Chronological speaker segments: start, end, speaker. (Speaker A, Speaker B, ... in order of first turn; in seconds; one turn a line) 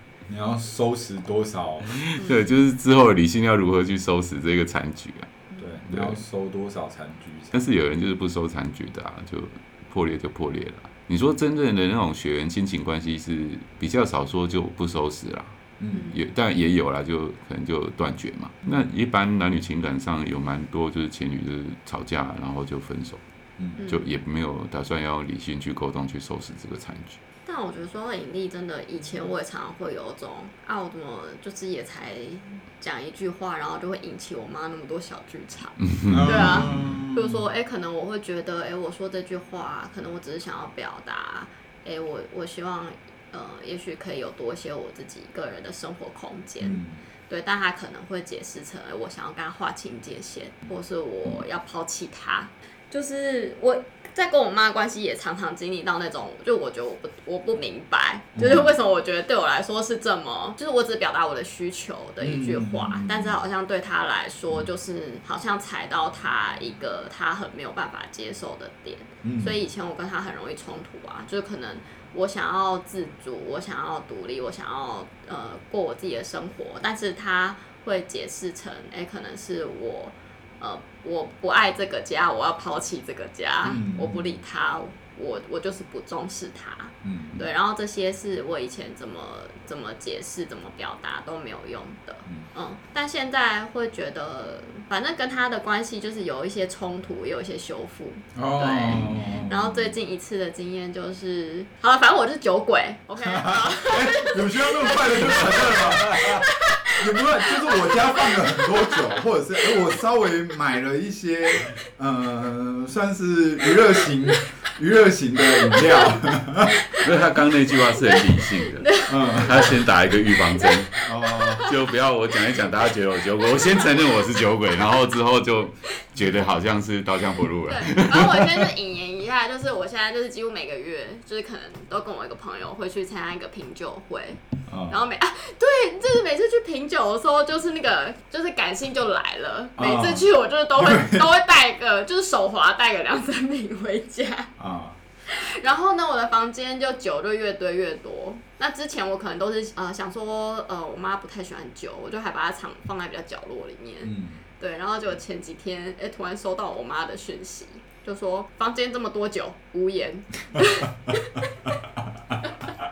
Speaker A: 0.3-2.0
Speaker B: 1.9-5.3
Speaker A: 5.6-7.6
Speaker B: 5.9-6.2
Speaker B: 7.5-23.2
Speaker A: 15.8-16.1
Speaker A: 18.6-18.9
Speaker A: 23.6-23.9
Speaker C: 23.8-24.1
Speaker B: 23.8-27.2
Speaker C: 27.4-109.9
Speaker B: 35.8-36.9
Speaker A: 36.1-37.5
Speaker A: 46.6-47.0
Speaker A: 58.3-58.8
Speaker A: 62.2-63.4
Speaker A: 69.2-69.6
Speaker A: 83.6-84.3
Speaker A: 87.0-87.5
Speaker A: 98.3-100.0
Speaker A: 103.2-116.8
Speaker C: 115.6-116.1
Speaker C: 116.8-117.1
Speaker B: 116.9-120.9
Speaker C: 117.8-121.8
Speaker A: 119.1-119.7
Speaker A: 121.0-121.7
Speaker B: 121.6-128.7
Speaker C: 123.4-124.2
Speaker C: 127.7-144.5
Speaker A: 134.7-135.0
Speaker A: 139.8-141.3
Speaker A: 144.6-145.0
Speaker C: 145.3-161.4
Speaker A: 154.0-154.4
Speaker A: 160.6-160.9